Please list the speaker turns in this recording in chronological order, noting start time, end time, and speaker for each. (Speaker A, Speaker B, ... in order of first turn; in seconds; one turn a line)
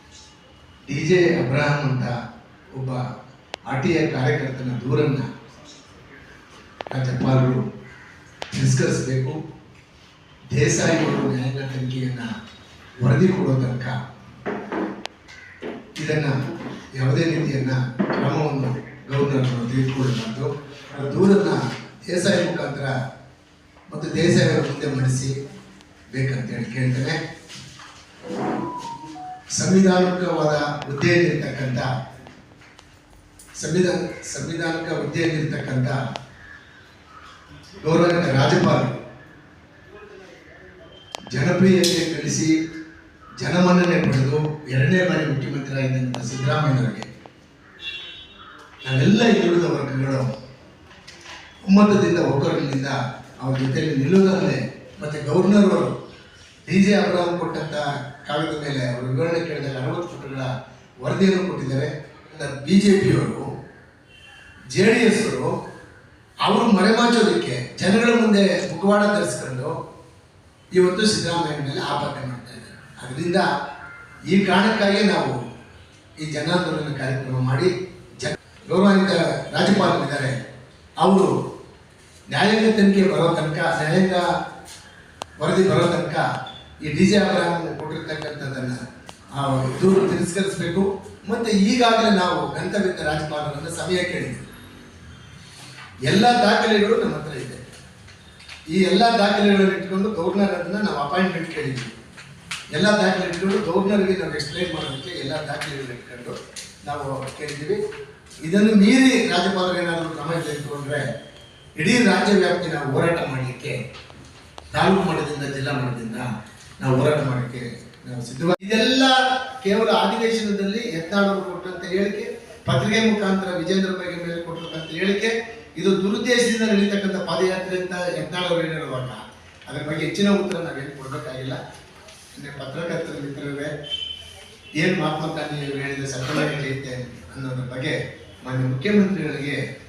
Speaker A: 0.9-2.1
Speaker A: 2.8-3.0
Speaker A: 3.7-5.3
Speaker A: 6.9-7.6
Speaker A: 8.5-9.4
Speaker A: 10.5-12.3
Speaker A: 13.0-14.0
Speaker A: 16.0-16.4
Speaker A: 17.0-22.9
Speaker A: 23.9-25.3
Speaker A: 26.1-27.2
Speaker A: 29.6-31.9
Speaker A: 33.6-36.0
Speaker A: 37.8-39.0
Speaker A: 41.3-42.5
Speaker A: 43.4-47.1
Speaker A: 48.8-50.3
Speaker A: 51.7-56.0
Speaker A: 56.7-63.5
Speaker A: 64.7-65.6
Speaker A: 66.4-69.8
Speaker A: 70.7-73.5
Speaker A: 74.3-75.4
Speaker A: 76.2-80.4
Speaker A: 81.0-81.3
Speaker A: 82.3-84.3
Speaker A: 85.4-86.3
Speaker A: 86.8-88.8
Speaker A: 89.3-94.5
Speaker A: 96.1-97.7
Speaker A: 98.7-101.9
Speaker A: 102.7-107.8
Speaker A: 108.4-111.1
Speaker A: 111.8-113.8
Speaker A: 114.7-131.6
Speaker A: 132.3-133.7
Speaker A: 134.8-139.6